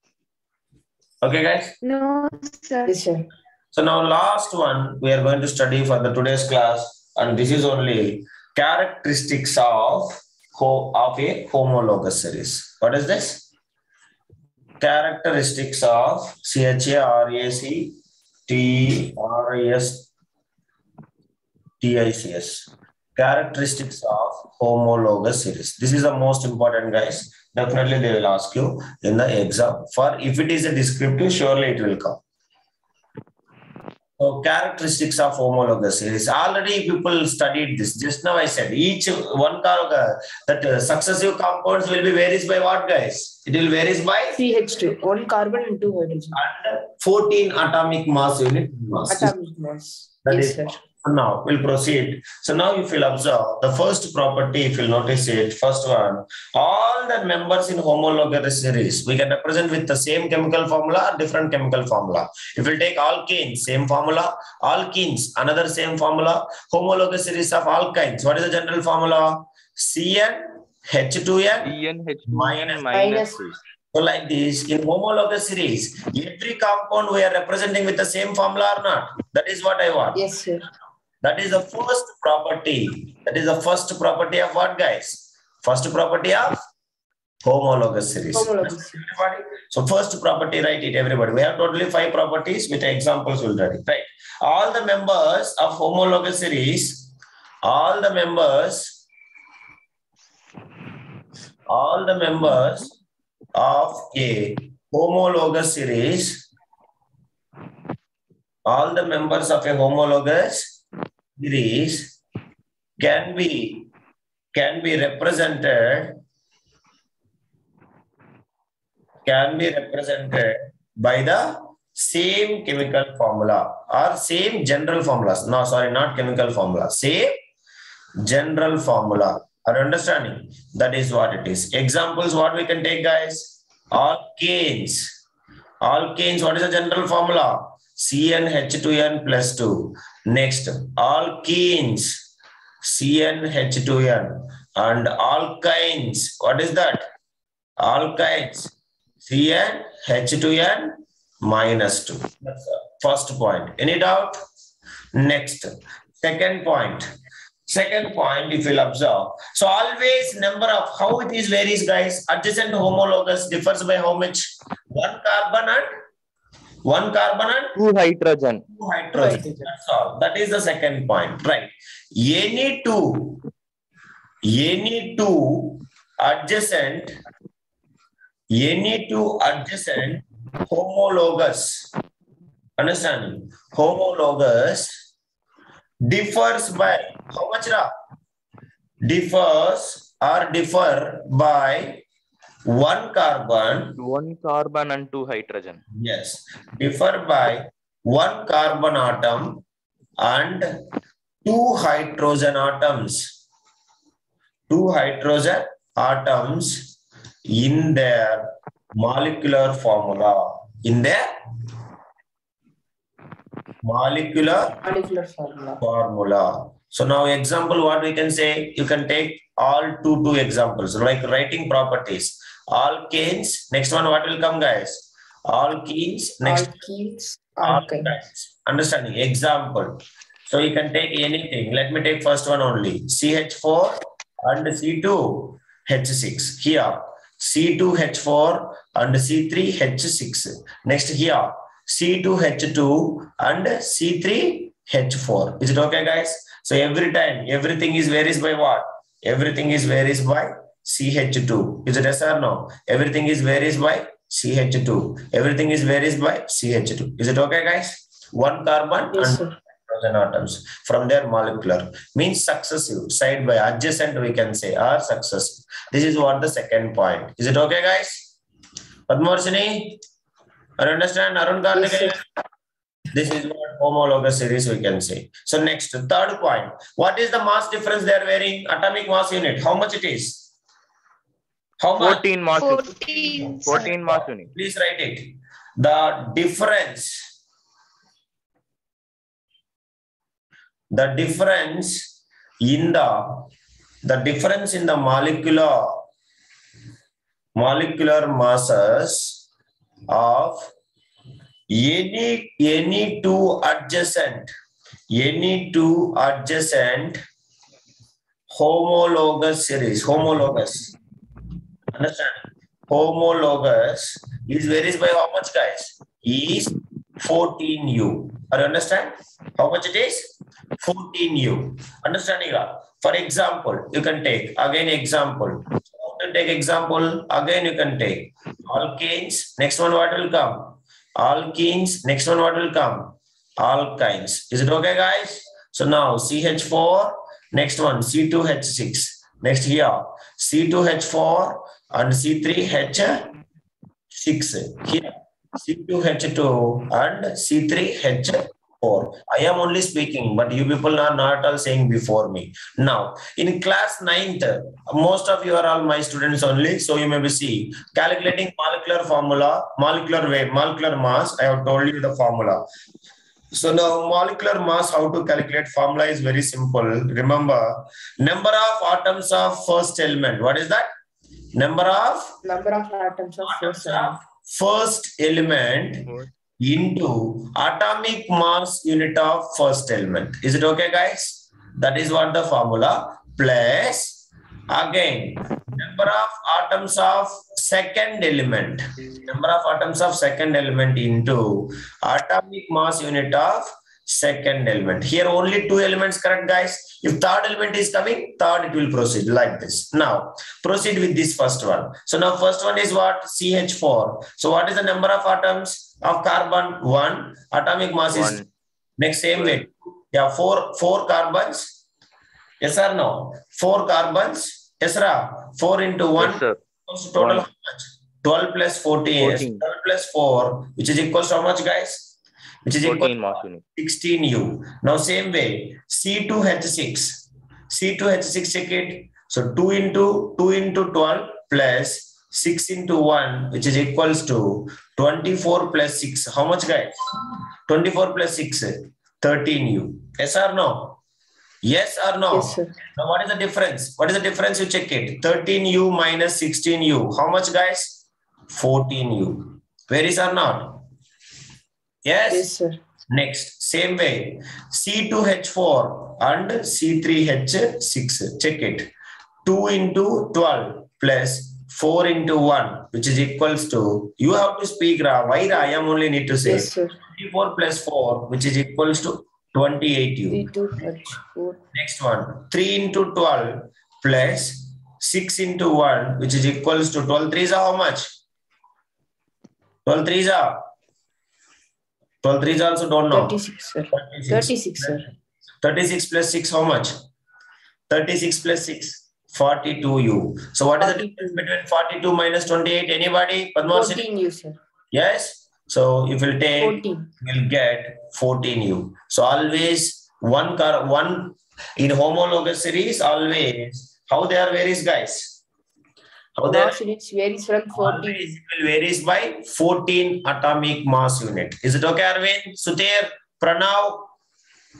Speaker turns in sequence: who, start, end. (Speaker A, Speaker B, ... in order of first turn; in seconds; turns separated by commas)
Speaker A: 1.2-1.8, Speaker B: 1.8-2.9, Speaker C: 2.9-3.3, Speaker A: 3.7-13.5, Speaker A: 14.8-18.0, Speaker A: 18.5-20.1, Speaker A: 21.8-32.2, Speaker A: 34.2-44.4, Speaker C: 44.4-46.4, Speaker A: 46.4-49.3, Speaker C: 49.1-50.8, Speaker A: 50.2-71.7, Speaker D: 71.6-73.6, Speaker A: 72.3-72.9, Speaker C: 72.9-73.5, Speaker A: 73.9-80.2, Speaker C: 80.1-80.7, Speaker A: 81.2-86.6, Speaker A: 87.4-97.1, Speaker C: 88.3-89.0, Speaker A: 97.7-99.0, Speaker A: 101.7-102.9, Speaker A: 103.5-106.4, Speaker A: 108.7-110.7, Speaker A: 111.4-112.1, Speaker A: 113.0-113.9, Speaker A: 114.5-116.2, Speaker A: 119.2-127.4, Speaker A: 128.2-135.1, Speaker A: 135.8-142.2, Speaker A: 142.8-147.1, Speaker A: 147.8-154.4, Speaker A: 155.2-157.1, Speaker A: 157.7-165.9, Speaker A: 166.8-167.8, Speaker D: 167.8-168.6, Speaker A: 168.7-173.4, Speaker C: 169.2-169.4, Speaker D: 169.4-169.7, Speaker A: 174.4-177.2, Speaker A: 178.5-181.9, Speaker A: 182.8-185.0, Speaker A: 186.1-187.9, Speaker A: 189.0-192.0, Speaker A: 192.7-194.0, Speaker D: 194.0-195.8, Speaker A: 195.9-199.6, Speaker A: 200.2-200.8, Speaker A: 201.4-203.3, Speaker A: 204.7-206.9, Speaker A: 207.5-211.2, Speaker A: 213.8-214.8, Speaker C: 214.8-215.8, Speaker A: 215.8-226.8, Speaker C: 226.4-228.2, Speaker A: 227.6-268.3, Speaker C: 259.1-259.5, Speaker A: 269.1-270.0, Speaker A: 270.8-272.2, Speaker C: 271.7-272.2, Speaker A: 273.1-280.5, Speaker A: 281.8-282.3, Speaker D: 282.0-282.9, Speaker B: 282.6-283.9, Speaker A: 283.4-287.2, Speaker D: 283.4-284.5, Speaker A: 290.9-292.0, Speaker A: 292.6-293.5, Speaker A: 294.0-296.0, Speaker A: 297.6-299.4, Speaker A: 300.1-300.7, Speaker A: 301.7-304.5, Speaker A: 305.1-307.2, Speaker A: 308.5-310.9, Speaker A: 311.9-343.3, Speaker A: 344.1-362.6, Speaker A: 363.5-370.9, Speaker A: 371.6-372.4, Speaker C: 372.4-374.2, Speaker A: 373.4-408.4, Speaker D: 408.1-408.5, Speaker A: 409.0-411.7, Speaker D: 409.4-409.6, Speaker A: 412.6-422.1, Speaker D: 416.2-416.6, Speaker D: 417.2-417.5, Speaker D: 419.2-419.6, Speaker A: 422.6-441.0, Speaker D: 422.8-423.6, Speaker A: 441.6-450.8, Speaker C: 442.3-442.8, Speaker A: 452.1-452.5, Speaker C: 452.3-452.8, Speaker A: 453.1-458.9, Speaker A: 459.4-470.4, Speaker C: 466.4-467.0, Speaker C: 470.3-471.6, Speaker A: 471.7-478.1, Speaker A: 479.9-480.7, Speaker A: 482.2-483.4, Speaker C: 483.1-485.0, Speaker A: 483.9-485.1, Speaker A: 485.6-486.9, Speaker A: 487.9-494.1, Speaker C: 490.8-491.3, Speaker C: 493.7-494.6, Speaker A: 494.9-505.4, Speaker C: 496.6-497.1, Speaker A: 506.4-506.8, Speaker C: 506.4-508.3, Speaker A: 507.7-514.1